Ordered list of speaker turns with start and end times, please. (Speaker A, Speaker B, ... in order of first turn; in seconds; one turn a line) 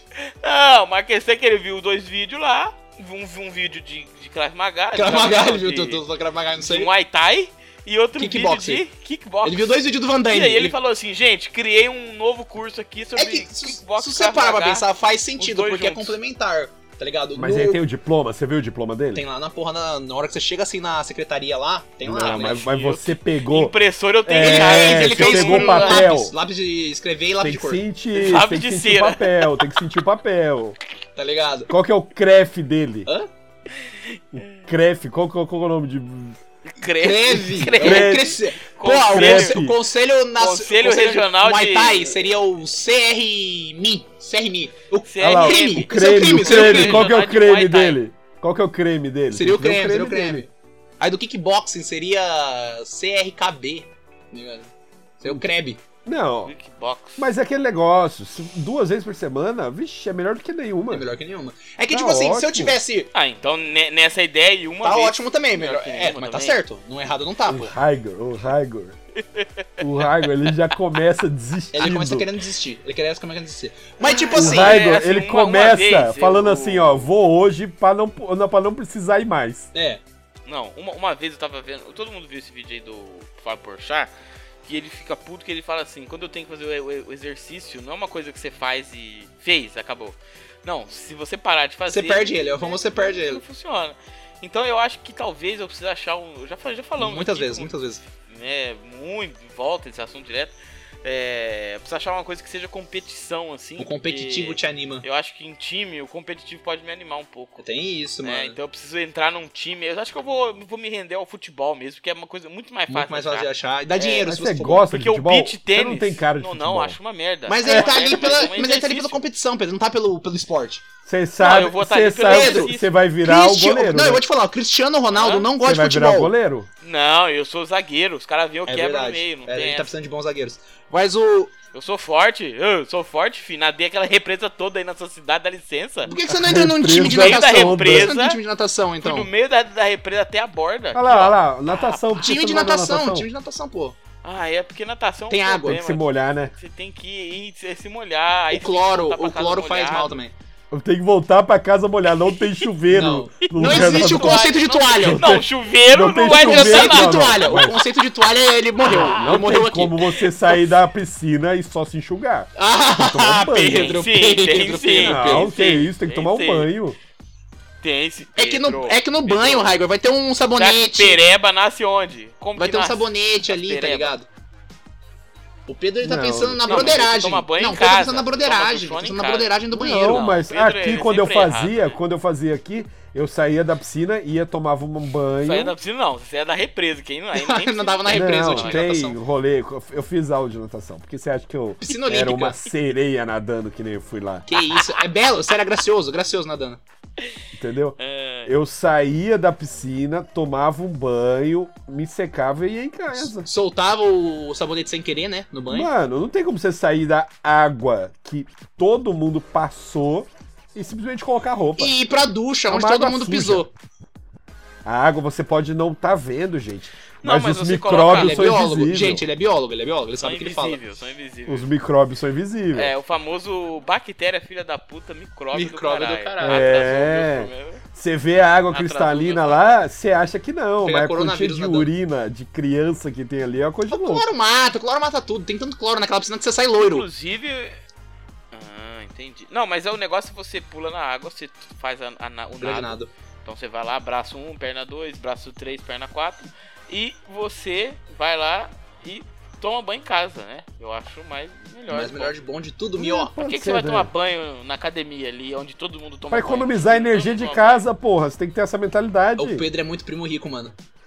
Speaker A: 0.4-6.0
Speaker B: 5.0-6.9
Speaker A: 6.6-14.9
Speaker B: 8.2-8.8
Speaker B: 9.4-10.8
Speaker B: 13.2-17.8
Speaker A: 15.4-16.2
Speaker C: 17.4-19.2
Speaker B: 19.1-22.6
Speaker C: 22.0-26.4
Speaker A: 22.1-26.1
Speaker B: 24.4-27.8
Speaker C: 27.4-30.8
Speaker A: 28.1-29.6
Speaker B: 31.2-31.7
Speaker C: 31.7-33.1
Speaker A: 33.8-34.6
Speaker C: 34.4-36.4
Speaker A: 36.7-39.6
Speaker B: 37.0-47.1
Speaker C: 37.8-38.4
Speaker C: 39.1-39.8
Speaker A: 40.4-42.2
Speaker A: 45.1-48.0
Speaker C: 45.2-50.5
Speaker B: 49.3-50.5
Speaker B: 51.0-54.7
Speaker B: 55.2-55.8
Speaker C: 56.0-56.5
Speaker A: 56.5-57.3
Speaker C: 57.2-61.0
Speaker B: 60.9-63.1
Speaker C: 61.9-62.8
Speaker A: 63.1-66.6
Speaker B: 64.8-67.7
Speaker C: 67.5-69.0
Speaker C: 69.8-72.3
Speaker B: 71.7-74.8
Speaker A: 74.2-77.1
Speaker C: 74.3-79.7
Speaker B: 79.7-80.0
Speaker A: 80.5-84.1
Speaker A: 84.7-97.7
Speaker B: 91.9-93.4
Speaker B: 97.0-98.0
Speaker A: 98.3-107.7
Speaker B: 103.8-105.0
Speaker B: 107.6-108.6
Speaker A: 108.2-114.3
Speaker B: 112.9-114.9
Speaker C: 114.3-117.0
Speaker A: 114.8-119.2
Speaker B: 117.5-120.9
Speaker C: 117.6-118.2
Speaker C: 121.1-124.2
Speaker A: 121.4-122.9
Speaker B: 122.2-122.7
Speaker B: 123.2-126.3
Speaker A: 125.1-125.5
Speaker C: 125.6-126.7
Speaker A: 126.8-129.9
Speaker B: 128.7-131.5
Speaker A: 131.7-136.1
Speaker B: 136.1-139.3
Speaker C: 136.1-138.1
Speaker A: 137.1-138.4
Speaker A: 139.0-142.3
Speaker C: 140.9-143.3
Speaker B: 142.2-144.0
Speaker A: 144.2-150.1
Speaker B: 145.3-145.8
Speaker C: 145.7-146.5
Speaker B: 148.5-150.3
Speaker C: 150.7-157.8
Speaker B: 152.9-155.2
Speaker A: 153.5-157.7
Speaker B: 156.2-160.0
Speaker C: 158.9-164.0
Speaker A: 158.9-159.4
Speaker B: 162.6-165.6
Speaker A: 163.6-166.7
Speaker C: 165.0-167.0
Speaker A: 167.8-169.7
Speaker B: 168.4-171.2
Speaker A: 170.6-174.2
Speaker B: 172.6-174.3
Speaker B: 175.7-180.2
Speaker C: 176.0-177.0
Speaker A: 176.7-179.5
Speaker C: 179.7-185.7
Speaker A: 180.1-182.0
Speaker A: 185.4-188.9
Speaker B: 187.3-189.2
Speaker C: 188.1-194.5
Speaker B: 191.8-192.6
Speaker B: 194.5-196.8
Speaker C: 197.6-203.5
Speaker A: 198.0-198.5
Speaker B: 203.4-205.9
Speaker C: 205.7-211.9
Speaker B: 211.8-213.7
Speaker C: 212.7-213.7
Speaker C: 214.8-219.2
Speaker A: 217.2-218.7
Speaker B: 218.1-220.8
Speaker A: 220.2-221.7
Speaker C: 221.5-222.9
Speaker A: 222.7-227.8
Speaker B: 225.5-226.7
Speaker C: 226.4-234.3
Speaker A: 228.7-229.8
Speaker B: 230.8-231.9
Speaker B: 233.9-237.1
Speaker A: 236.8-237.8
Speaker A: 238.5-252.3
Speaker B: 242.6-243.1
Speaker B: 251.9-253.3
Speaker C: 253.0-254.1
Speaker A: 253.4-257.9
Speaker C: 256.3-259.6
Speaker B: 259.4-260.7